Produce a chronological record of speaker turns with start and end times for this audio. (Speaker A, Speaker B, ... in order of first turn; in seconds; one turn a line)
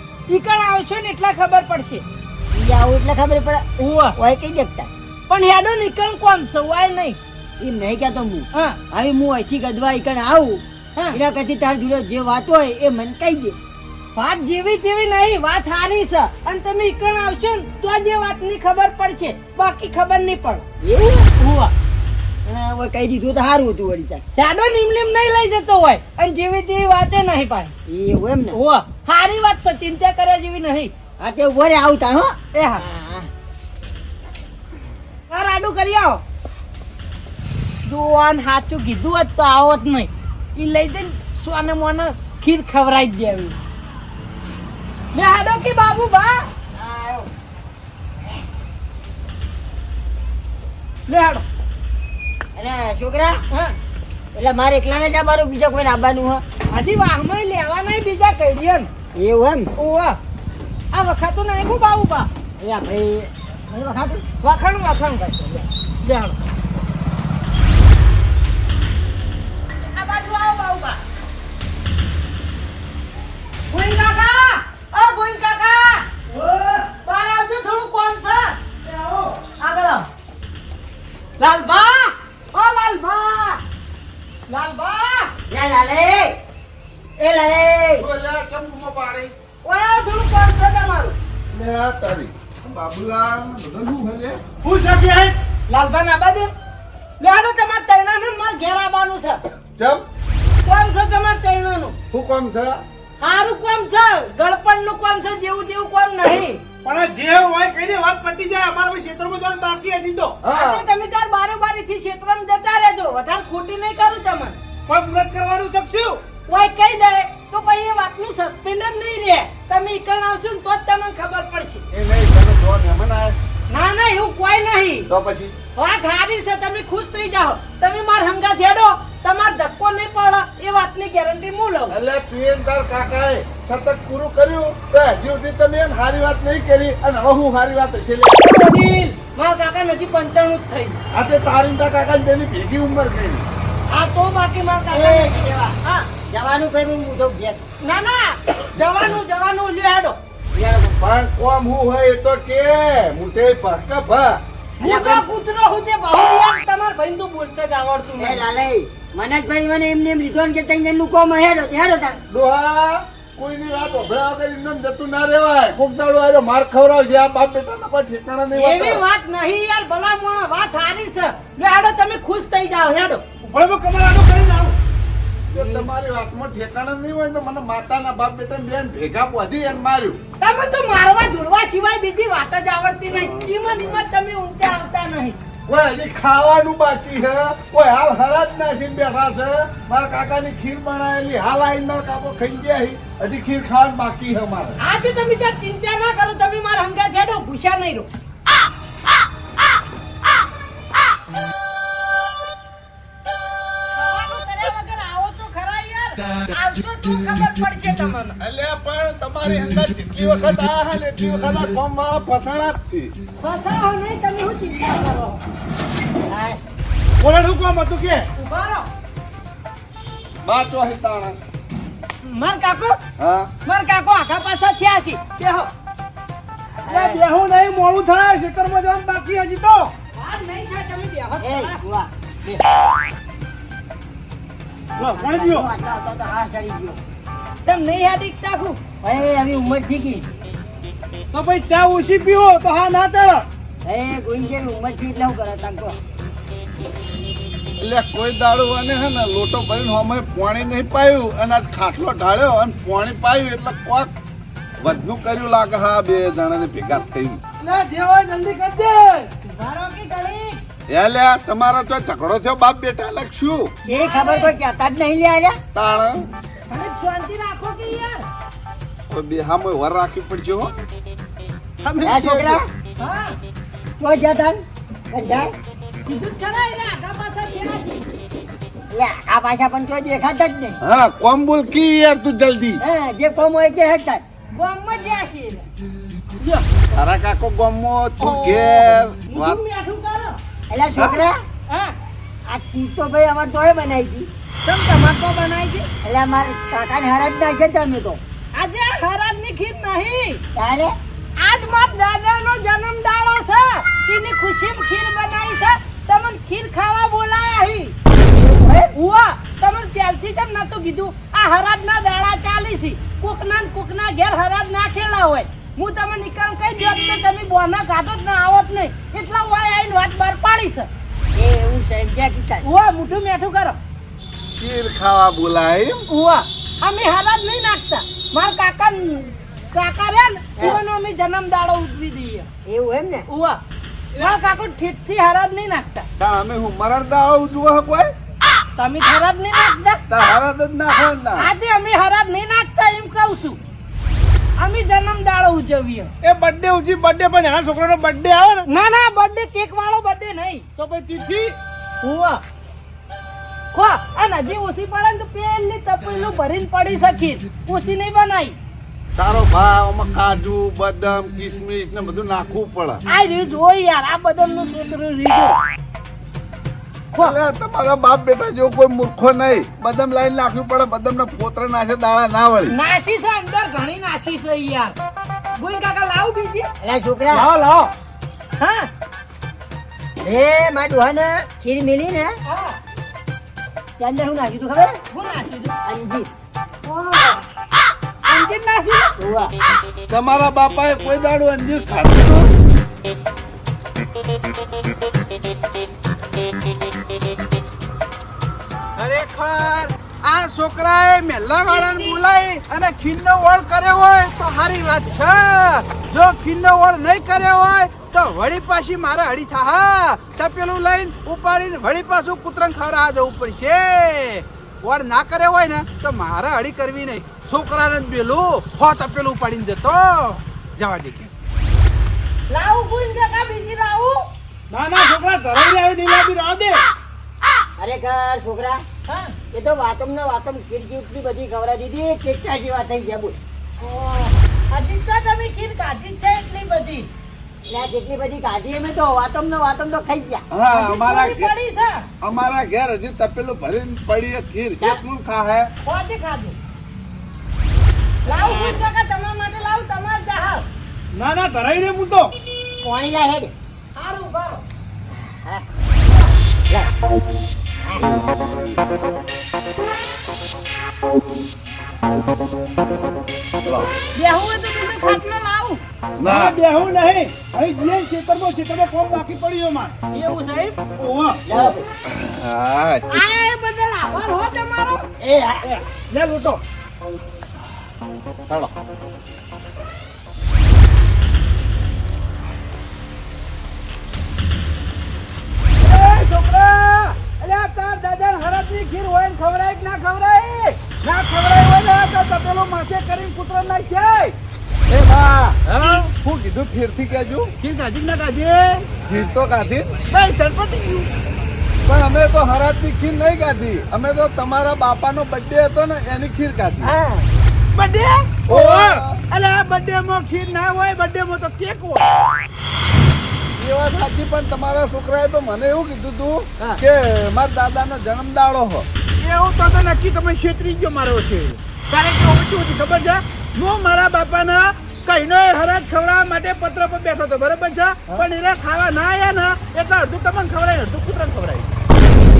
Speaker A: 0.3-2.0
Speaker B: 2.5-3.6
Speaker A: 3.8-4.2
Speaker B: 4.2-4.9
Speaker A: 5.3-7.2
Speaker B: 7.6-13.6
Speaker A: 8.5-8.8
Speaker A: 14.1-20.6
Speaker B: 20.8-21.3
Speaker A: 21.4-21.7
Speaker B: 22.4-24.2
Speaker A: 24.4-27.7
Speaker B: 27.9-28.6
Speaker A: 28.5-30.9
Speaker B: 31.2-33.3
Speaker A: 32.5-32.9
Speaker A: 35.3-36.2
Speaker A: 37.8-43.5
Speaker A: 45.1-46.5
Speaker B: 46.7-47.3
Speaker A: 51.1-51.4
Speaker B: 52.5-53.4
Speaker A: 53.5-53.7
Speaker B: 54.3-56.4
Speaker A: 56.7-58.9
Speaker B: 59.1-59.7
Speaker A: 59.8-60.2
Speaker A: 60.9-62.3
Speaker B: 62.6-64.2
Speaker A: 64.4-66.3
Speaker A: 69.9-71.0
Speaker A: 73.7-76.1
Speaker C: 76.3-76.9
Speaker A: 77.0-78.6
Speaker C: 78.9-79.3
Speaker A: 79.6-80.1
Speaker A: 81.4-83.6
Speaker A: 84.5-85.3
Speaker B: 85.5-86.4
Speaker B: 87.2-88.0
Speaker D: 88.0-89.3
Speaker A: 89.6-91.2
Speaker D: 91.5-94.4
Speaker C: 94.6-95.3
Speaker A: 95.7-96.5
Speaker A: 97.2-99.4
Speaker D: 99.8-100.0
Speaker A: 100.6-102.0
Speaker D: 102.1-102.8
Speaker A: 103.2-106.6
Speaker C: 106.8-110.4
Speaker D: 110.4-110.8
Speaker A: 110.5-114.6
Speaker C: 114.9-116.2
Speaker A: 116.5-121.8
Speaker D: 121.9-123.4
Speaker A: 123.7-125.1
Speaker D: 125.1-125.5
Speaker A: 125.8-131.9
Speaker D: 131.9-138.5
Speaker A: 138.4-141.0
Speaker D: 141.1-143.4
Speaker A: 143.9-146.1
Speaker B: 144.9-145.8
Speaker B: 146.3-147.6
Speaker A: 147.8-150.2
Speaker D: 150.5-154.4
Speaker A: 154.8-158.4
Speaker B: 154.8-155.2
Speaker B: 158.2-162.2
Speaker D: 162.3-169.0
Speaker A: 168.5-173.2
Speaker C: 173.4-174.8
Speaker D: 175.5-180.2
Speaker A: 180.4-185.4
Speaker D: 183.2-184.0
Speaker D: 185.7-194.8
Speaker A: 194.8-198.1
Speaker A: 203.9-208.4
Speaker D: 208.4-213.1
Speaker A: 213.4-215.4
Speaker B: 216.3-216.6
Speaker C: 217.2-218.2
Speaker A: 218.3-218.9
Speaker D: 220.4-221.4
Speaker A: 222.2-223.0
Speaker D: 223.2-223.5
Speaker A: 223.7-225.7
Speaker C: 226.8-229.9
Speaker B: 226.9-227.2
Speaker A: 230.1-231.8
Speaker B: 231.4-232.6
Speaker C: 234.9-235.7
Speaker B: 235.0-237.0
Speaker A: 237.6-238.8
Speaker B: 239.0-240.3
Speaker C: 241.3-243.4
Speaker B: 243.8-246.0
Speaker D: 247.8-254.1
Speaker D: 254.8-257.4
Speaker C: 257.6-259.3
Speaker A: 259.4-260.6
Speaker D: 260.9-263.7
Speaker B: 263.8-265.6
Speaker A: 263.9-264.5
Speaker D: 265.7-266.3
Speaker A: 266.7-268.2
Speaker D: 269.1-270.8
Speaker C: 271.8-272.6
Speaker B: 272.0-272.6
Speaker A: 273.0-273.4
Speaker B: 274.0-275.5
Speaker A: 276.1-278.0
Speaker B: 278.9-280.8
Speaker D: 280.8-282.8
Speaker B: 282.8-284.2
Speaker A: 284.5-285.7
Speaker D: 286.9-289.6
Speaker A: 288.2-290.4
Speaker B: 290.7-291.4
Speaker D: 291.0-291.3
Speaker A: 291.7-291.9
Speaker B: 292.5-294.3
Speaker A: 294.6-295.9
Speaker B: 296.0-298.2
Speaker A: 298.5-300.4
Speaker B: 300.5-300.9
Speaker A: 301.4-307.9
Speaker B: 308.1-308.9
Speaker A: 308.9-320.9
Speaker B: 321.3-322.6
Speaker A: 322.6-323.8
Speaker D: 324.5-326.0
Speaker A: 326.1-332.5
Speaker B: 332.6-333.2
Speaker A: 333.3-333.6
Speaker A: 334.1-336.1
Speaker D: 336.2-338.1
Speaker A: 338.8-340.0
Speaker D: 340.1-341.5
Speaker A: 341.4-343.6
Speaker A: 344.6-346.1
Speaker C: 346.2-348.7
Speaker A: 348.7-350.6
Speaker C: 350.8-351.5
Speaker A: 352.0-352.4
Speaker A: 353.7-358.6
Speaker D: 359.2-363.0
Speaker A: 363.1-365.6
Speaker D: 367.2-372.7
Speaker A: 372.7-374.9
Speaker A: 375.6-376.7
Speaker B: 376.8-377.5
Speaker C: 377.3-377.9
Speaker A: 378.6-378.9
Speaker B: 380.2-382.4
Speaker A: 382.4-382.8
Speaker B: 384.0-385.0
Speaker A: 385.1-385.7
Speaker B: 385.8-386.3
Speaker A: 386.8-387.4
Speaker A: 388.2-389.2
Speaker B: 389.2-389.5
Speaker D: 390.1-392.5
Speaker E: 399.0-421.3
Speaker A: 422.5-424.2
Speaker C: 424.7-426.8
Speaker B: 427.8-428.8
Speaker A: 429.1-429.4
Speaker B: 429.5-433.4
Speaker A: 433.8-437.1
Speaker B: 437.7-440.4
Speaker D: 440.5-441.5
Speaker A: 440.7-442.1
Speaker D: 442.2-445.7
Speaker A: 445.8-446.6
Speaker A: 448.2-450.6
Speaker B: 448.3-448.7
Speaker C: 451.1-452.3
Speaker B: 452.8-453.5
Speaker A: 453.9-454.6
Speaker B: 455.1-455.6
Speaker D: 458.0-458.4
Speaker D: 463.6-463.9
Speaker A: 464.1-465.8
Speaker D: 466.2-466.6
Speaker C: 466.2-469.9
Speaker A: 470.1-470.8
Speaker C: 471.0-471.4
Speaker B: 471.5-471.9
Speaker D: 471.5-473.1
Speaker A: 473.1-475.1
Speaker B: 475.2-475.6
Speaker C: 475.6-476.6
Speaker E: 485.8-494.3
Speaker D: 494.9-497.5
Speaker E: 495.7-496.1
Speaker E: 497.6-499.2
Speaker D: 499.1-500.0
Speaker E: 500.1-501.1
Speaker D: 501.8-506.9
Speaker B: 506.8-507.3
Speaker E: 507.7-508.7
Speaker D: 508.5-509.2
Speaker C: 508.5-509.0
Speaker E: 509.3-512.3
Speaker D: 513.5-518.9
Speaker E: 519.2-531.7